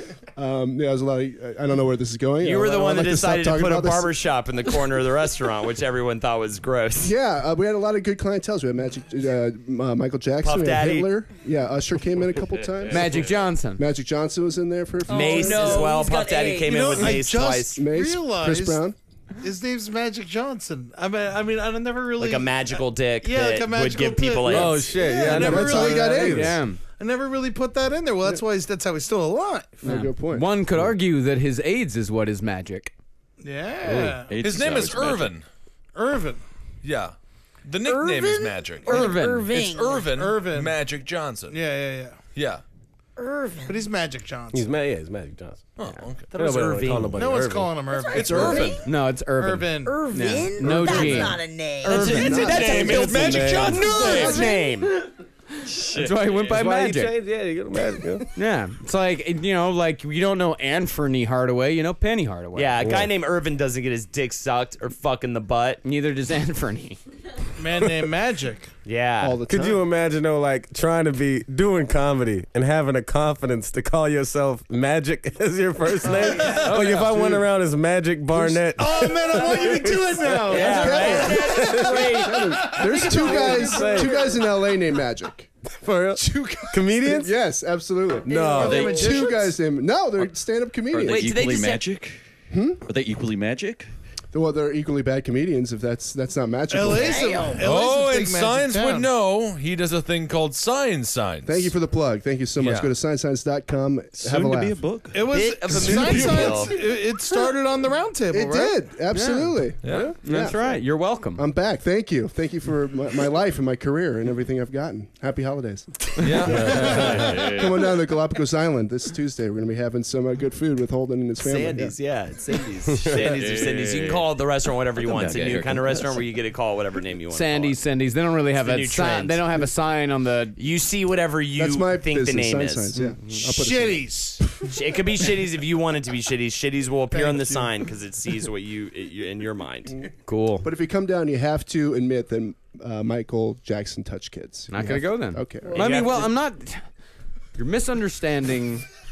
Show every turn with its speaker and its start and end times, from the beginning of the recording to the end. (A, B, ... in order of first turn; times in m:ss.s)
0:00.4-0:04.2 A
0:02.4-0:07.1 B
0:07.0-0:13.2 A
0:10.4-0:11.1 B
0:12.9-0:13.8 C
0:13.8-0:15.9 A
0:15.1-0:16.9 D
0:15.1-0:17.8 B
0:16.7-0:18.8 E
0:17.7-0:19.0 A
0:19.4-0:26.4 E
0:22.2-0:24.9 B
0:24.4-0:26.6 F
0:25.3-0:26.6 A
0:26.2-0:26.8 C
0:27.0-0:29.8 E
0:29.8-0:30.5 A
0:29.8-0:32.9 C
0:33.4-0:34.4 E
0:33.9-0:34.2 F
0:34.3-0:35.3 G
0:34.4-0:35.4 H
0:35.9-0:36.4 E
0:36.8-0:41.6 H
0:37.8-0:40.1 D
0:38.9-0:39.5 C
0:40.1-0:40.8 E
0:41.5-0:42.2 E
0:42.3-0:42.6 H
0:43.2-0:43.8 D
0:43.7-0:44.7 E
0:44.5-0:45.6 F
0:45.8-0:46.3 H
0:46.3-0:47.2 B
0:46.3-0:47.7 F
0:47.1-0:48.8 E
0:47.9-0:48.8 D
0:48.1-0:48.7 A
0:48.1-0:48.7 H
0:48.7-0:52.5 C
0:49.3-0:50.1 E
0:49.8-0:55.1 D
0:50.8-0:51.1 A
0:51.9-0:54.5 H
0:51.9-0:53.3 A
0:52.7-0:53.9 F
0:53.7-0:55.0 B
0:55.6-0:56.6 G
0:55.9-0:57.2 C
0:56.4-0:58.3 F
0:58.3-1:02.8 C
1:02.5-1:05.8 B
1:02.8-1:03.1 F
1:05.8-1:07.0 C
1:07.6-1:08.7 E
1:08.8-1:09.4 B
1:09.2-1:09.8 A
1:09.5-1:20.7 F
1:16.0-1:17.4 E
1:16.8-1:17.4 A
1:18.4-1:18.6 A
1:18.5-1:21.8 E
1:20.5-1:22.4 B
1:20.5-1:25.5 A
1:20.7-1:22.3 D
1:21.6-1:21.9 F
1:22.4-1:24.1 E
1:22.9-1:24.1 D
1:23.1-1:24.2 F
1:25.8-1:27.3 F
1:26.2-1:26.9 E
1:27.0-1:31.4 A
1:28.3-1:29.0 F
1:28.3-1:29.4 D
1:28.5-1:29.5 E
1:28.6-1:29.0 G
1:30.9-1:32.2 G
1:31.0-1:31.8 D
1:32.5-1:32.8 A
1:32.8-1:33.9 G
1:34.3-1:37.4 A
1:36.7-1:39.1 E
1:36.9-1:37.6 D
1:37.6-1:41.7 H
1:41.4-1:44.8 A
1:42.6-1:42.9 H
1:44.2-1:45.3 G
1:45.1-1:48.8 E
1:45.2-1:46.8 B
1:45.7-1:46.6 A
1:48.3-1:50.8 A
1:49.1-1:49.7 C
1:49.8-1:50.1 H
1:50.2-1:51.4 C
1:51.3-2:01.9 A
1:56.2-1:57.2 H
1:56.4-1:57.1 F
1:56.6-1:57.5 E
1:56.9-1:57.9 G
2:01.4-2:07.8 B
2:03.2-2:04.3 G
2:05.0-2:06.2 G
2:07.3-2:10.6 C
2:08.5-2:09.5 B
2:10.6-2:12.9 B
2:11.5-2:14.7 A
2:13.0-2:13.3 C
2:13.4-2:14.5 E
2:14.6-2:20.0 B
2:17.1-2:17.7 E
2:20.2-2:20.7 C
2:20.6-2:25.9 A
2:24.7-2:26.8 C
2:25.7-2:26.3 B
2:27.6-2:28.8 C